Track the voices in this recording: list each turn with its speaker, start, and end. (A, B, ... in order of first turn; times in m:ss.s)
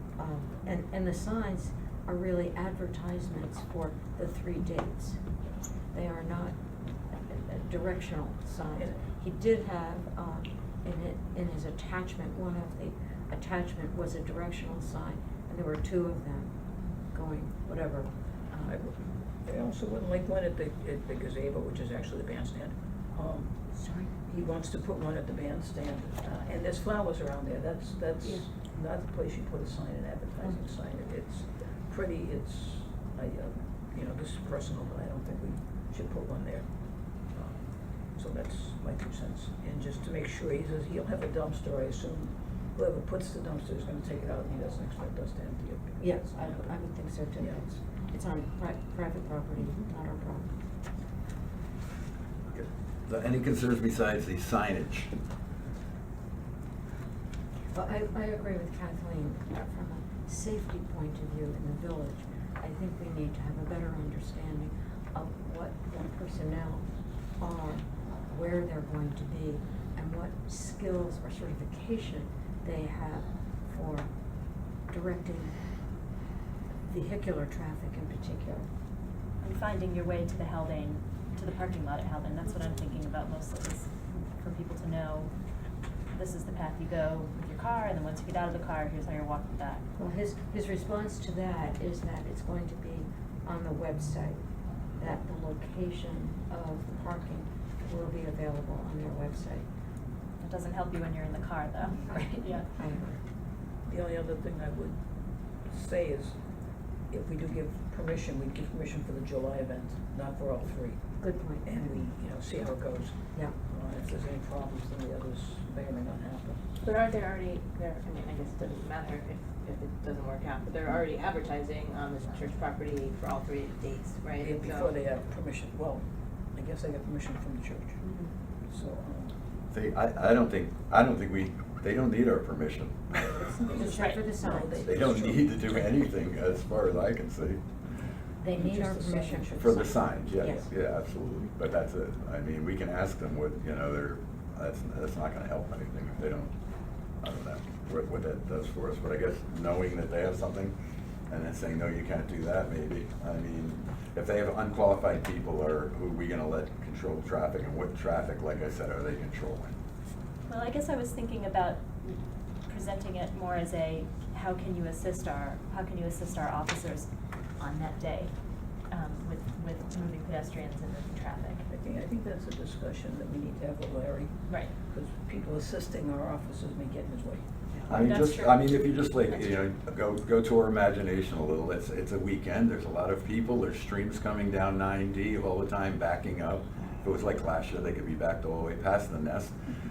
0:00.2-0:05.2 A
0:05.9-0:06.6 A
0:07.1-0:16.5 A
0:17.1-0:18.8 A
0:18.6-0:23.5 B
0:23.7-0:24.1 A
0:24.3-0:36.7 B
0:37.3-0:46.7 B
0:46.0-0:50.5 A
0:47.4-0:47.7 B
0:52.5-0:55.1 C
0:57.7-1:06.9 A
1:07.4-1:14.1 A
1:14.9-1:15.6 A
1:16.9-1:18.7 A
1:19.4-1:25.3 D
1:26.1-1:29.8 D
1:30.0-1:34.4 A
1:35.0-1:39.7 A
1:40.4-1:42.7 D
1:42.1-1:43.2 A
1:43.8-1:45.0 B
1:45.7-1:46.4 B
1:47.1-1:51.0 B
1:51.2-1:52.0 A
1:51.6-1:56.6 B
1:56.8-2:05.0 E
2:04.4-2:08.0 B
2:08.0-2:08.3 D
2:08.7-2:09.4 B
2:09.7-2:13.5 C
2:13.5-2:14.9 A
2:13.6-2:15.5 B
2:13.9-2:14.2 D
2:14.8-2:17.6 C
2:18.4-2:20.7 A
2:18.5-2:19.9 B
2:19.6-2:26.5 C
2:27.2-2:30.8 C
2:31.3-2:39.8 C
2:40.5-2:48.3 D
2:48.9-2:51.6 D
2:51.7-2:54.4 B
2:54.9-2:57.4 B
2:57.8-2:59.7 D
2:57.9-3:09.5 C